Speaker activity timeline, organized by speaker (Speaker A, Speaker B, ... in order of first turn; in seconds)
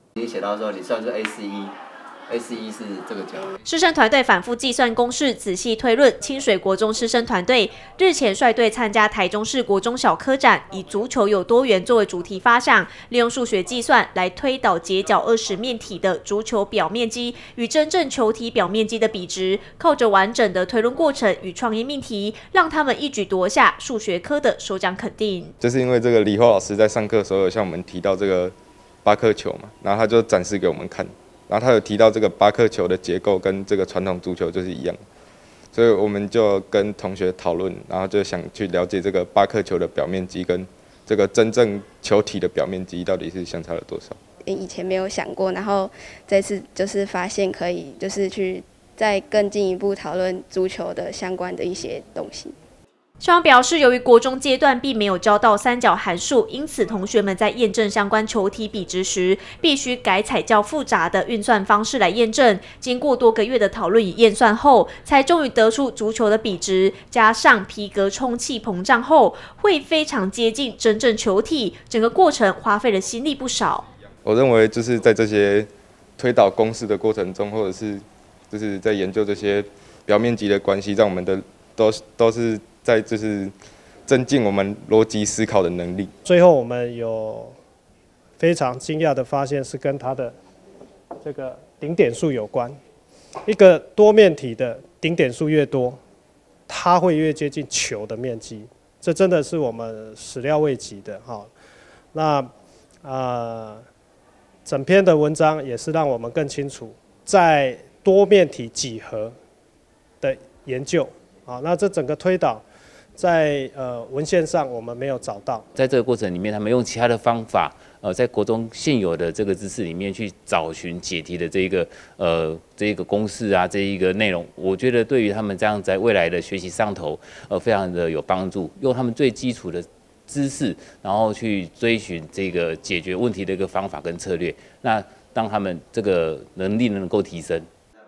Speaker A: 0.2-1.7, 2.3-3.5
Speaker B: 3.6-25.5, 53.2-73.8
Speaker C: 25.6-28.5, 29.0-35.0, 35.7-44.2, 74.2-83.5, 84.1-86.1
Speaker D: 44.4-52.5
Speaker E: 86.2-87.5, 88.4-90.3, 91.2-92.8, 93.5-96.0, 96.7-101.5, 102.1-102.5, 103.0-103.8, 104.7-109.3, 110.2-112.6, 113.2-115.6
Speaker F: 115.7-137.7